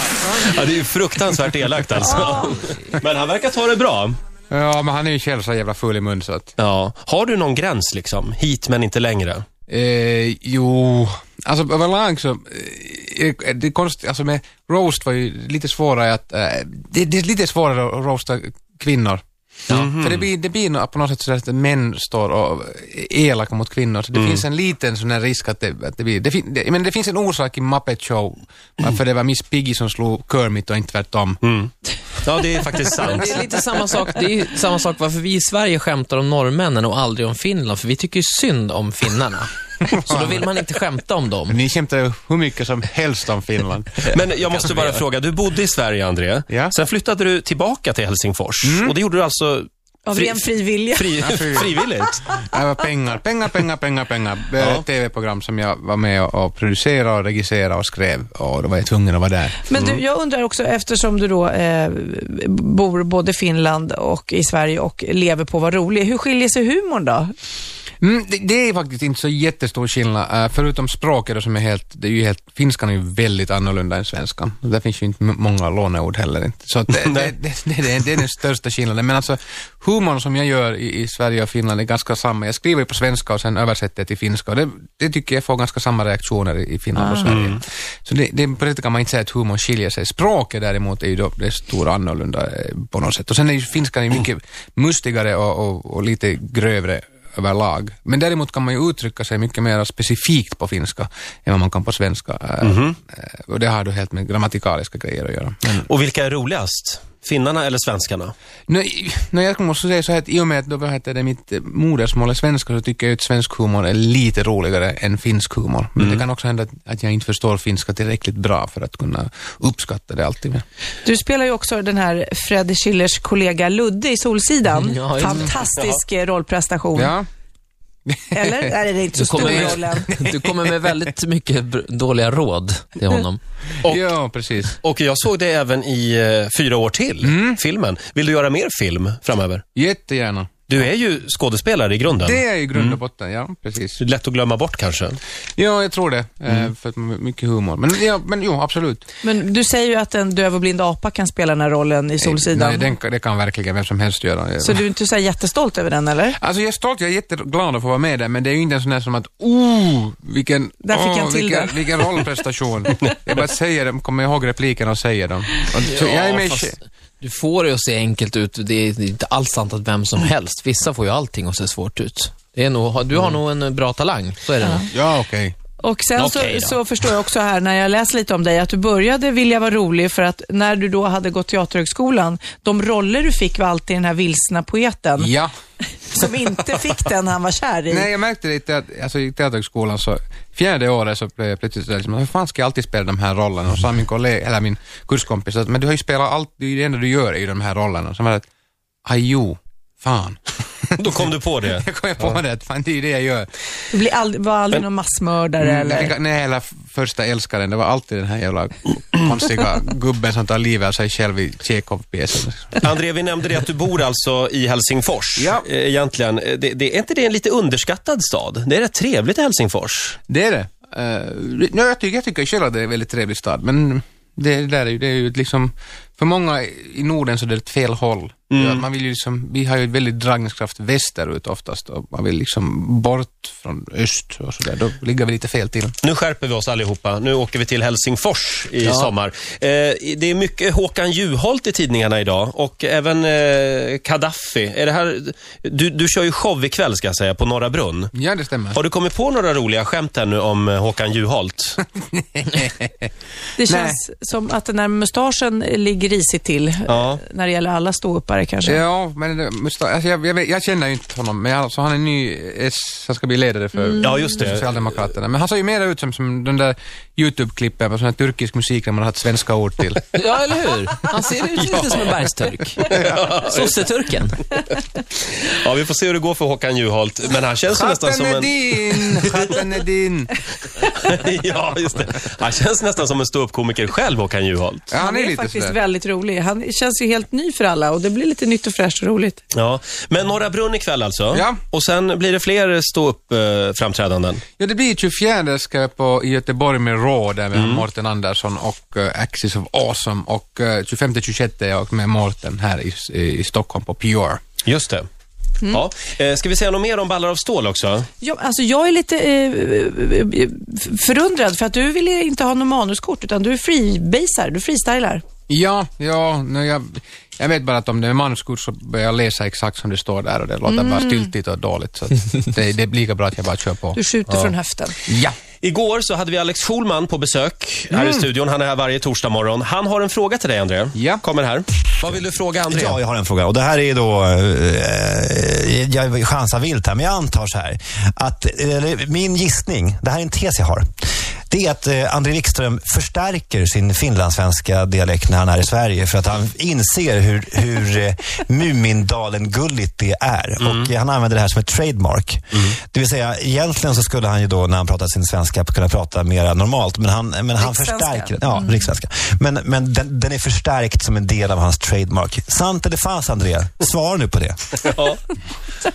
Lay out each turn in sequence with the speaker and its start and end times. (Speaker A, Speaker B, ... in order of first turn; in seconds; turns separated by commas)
Speaker A: 0.4-4.2, Speaker B: 2.0-2.6, Speaker C: 4.5-6.5, Speaker A: 6.6-9.4, Speaker C: 9.7-31.4, Speaker A: 19.7-20.3, Speaker A: 24.1-24.4, Speaker A: 31.4-33.4, Speaker D: 32.9-41.6, Speaker C: 39.9-40.4, Speaker C: 41.5-44.2, Speaker A: 44.1-52.2, Speaker D: 44.5-45.0, Speaker C: 46.5-46.8, Speaker C: 48.6-49.0, Speaker B: 50.1-51.2, Speaker C: 51.2-51.8, Speaker C: 52.5-59.6, Speaker A: 54.6-54.9, Speaker B: 59.6-67.3, Speaker A: 59.7-60.0, Speaker C: 68.0-105.8, Speaker A: 76.9-77.3, Speaker B: 87.0-87.4, Speaker A: 87.3-87.6, Speaker A: 102.6-103.0, Speaker A: 105.7-108.3, Speaker C: 108.7-120.6, Speaker A: 116.0-116.3, Speaker B: 121.0-127.2, Speaker D: 124.7-125.5, Speaker C: 127.0-127.3, Speaker C: 128.1-128.7, Speaker B: 128.3-130.1, Speaker D: 129.2-133.4, Speaker C: 129.3-130.9, Speaker C: 133.8-134.8, Speaker A: 134.8-139.6, Speaker C: 137.2-137.6, Speaker C: 139.8-140.9, Speaker A: 140.7-143.0, Speaker C: 142.1-144.0, Speaker A: 144.0-145.2, Speaker C: 145.6-149.1, Speaker B: 149.2-152.9, Speaker C: 152.2-154.8, Speaker B: 154.6-156.4, Speaker C: 156.4-166.8, Speaker B: 160.8-161.9, Speaker D: 165.8-174.9, Speaker C: 174.9-175.6, Speaker B: 175.8-185.3, Speaker D: 176.2-176.8, Speaker C: 185.2-185.5, Speaker B: 186.1-188.1, Speaker C: 187.9-198.5, Speaker C: 199.1-203.5, Speaker A: 201.0-201.8, Speaker B: 203.9-206.1, Speaker C: 205.6-212.9, Speaker A: 212.8-220.2, Speaker C: 215.4-215.7, Speaker C: 220.3-235.9, Speaker A: 228.5-228.8, Speaker A: 236.0-248.1, Speaker D: 238.8-239.1, Speaker C: 248.1-248.8, Speaker A: 248.7-251.8, Speaker C: 252.1-253.1, Speaker B: 253.6-258.8, Speaker C: 253.7-254.0, Speaker A: 256.9-257.2, Speaker C: 258.6-270.1, Speaker B: 263.8-264.3, Speaker A: 264.0-264.9, Speaker D: 270.1-274.4, Speaker A: 272.9-273.8, Speaker A: 275.3-279.4, Speaker C: 277.7-280.4, Speaker A: 280.9-284.9, Speaker C: 284.9-285.8, Speaker B: 285.0-289.4, Speaker A: 289.5-294.4, Speaker C: 291.3-291.6, Speaker C: 294.6-304.4, Speaker A: 297.5-297.9, Speaker A: 304.6-305.1, Speaker A: 305.7-308.1, Speaker B: 308.2-315.2, Speaker C: 315.5-324.0, Speaker B: 320.6-321.3, Speaker B: 323.9-325.0, Speaker A: 324.3-324.5, Speaker C: 325.1-325.4, Speaker A: 325.6-333.0, Speaker C: 327.9-328.3, Speaker C: 330.9-331.2, Speaker E: 332.7-340.9, Speaker E: 341.5-364.8, Speaker A: 350.6-350.9, Speaker B: 357.6-358.9, Speaker A: 364.8-365.2